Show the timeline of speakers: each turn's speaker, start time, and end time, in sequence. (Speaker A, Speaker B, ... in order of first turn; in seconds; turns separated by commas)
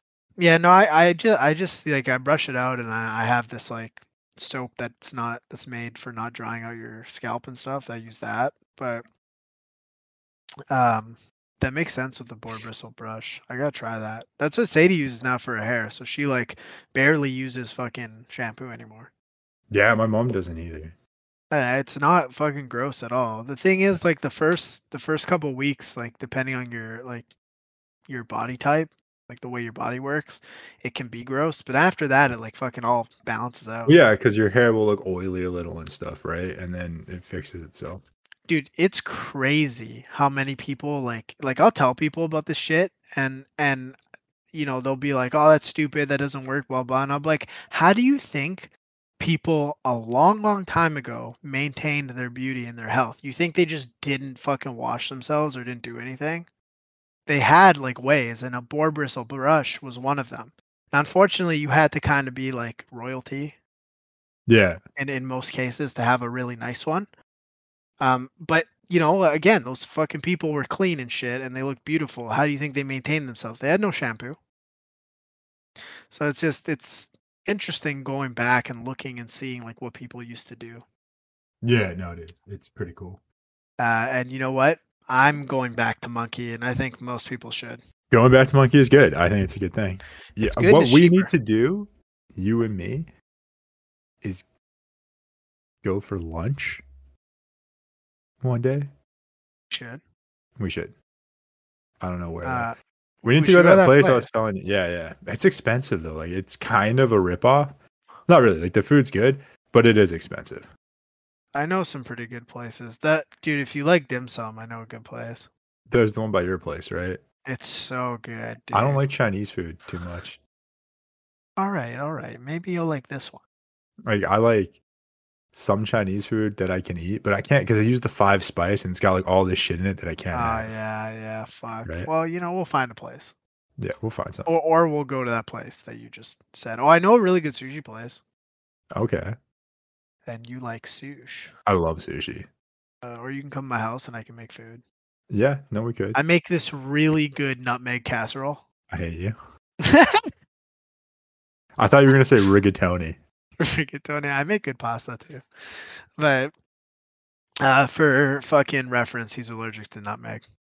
Speaker A: 0.4-9.1, Speaker A: 10.7-19.1, Speaker B: 19.7-20.9, Speaker A: 21.5-27.3, Speaker A: 28.1-34.0, Speaker B: 33.9-38.0, Speaker A: 38.5-44.0, Speaker A: 44.5-56.5, Speaker A: 57.3-63.6, Speaker B: 64.5-64.8, Speaker A: 65.0-67.1, Speaker A: 68.0-74.4, Speaker A: 76.1-80.8, Speaker B: 81.6-83.2, Speaker A: 83.8-87.8, Speaker B: 88.1-93.1, Speaker A: 90.4-91.3, Speaker B: 95.8-96.8, Speaker B: 98.4-98.9, Speaker A: 99.7-100.0, Speaker B: 100.6-101.0, Speaker B: 102.0-102.7, Speaker A: 102.4-104.3, Speaker B: 103.2-107.8, Speaker B: 108.3-110.7, Speaker A: 111.5-115.5, Speaker B: 115.9-117.2, Speaker A: 117.5-119.0, Speaker B: 118.7-120.4, Speaker A: 121.6-123.4, Speaker B: 124.0-124.8, Speaker B: 125.5-130.8, Speaker A: 130.3-133.3, Speaker B: 133.8-134.5, Speaker A: 134.4-138.2, Speaker B: 138.9-139.4, Speaker A: 140.3-141.5, Speaker B: 141.7-142.5, Speaker A: 143.0-144.8, Speaker B: 145.3-146.2, Speaker A: 146.1-148.6, Speaker B: 148.9-149.4, Speaker A: 149.8-150.3, Speaker B: 151.8-153.2, Speaker A: 153.6-155.4, Speaker A: 156.2-156.5, Speaker A: 157.6-160.4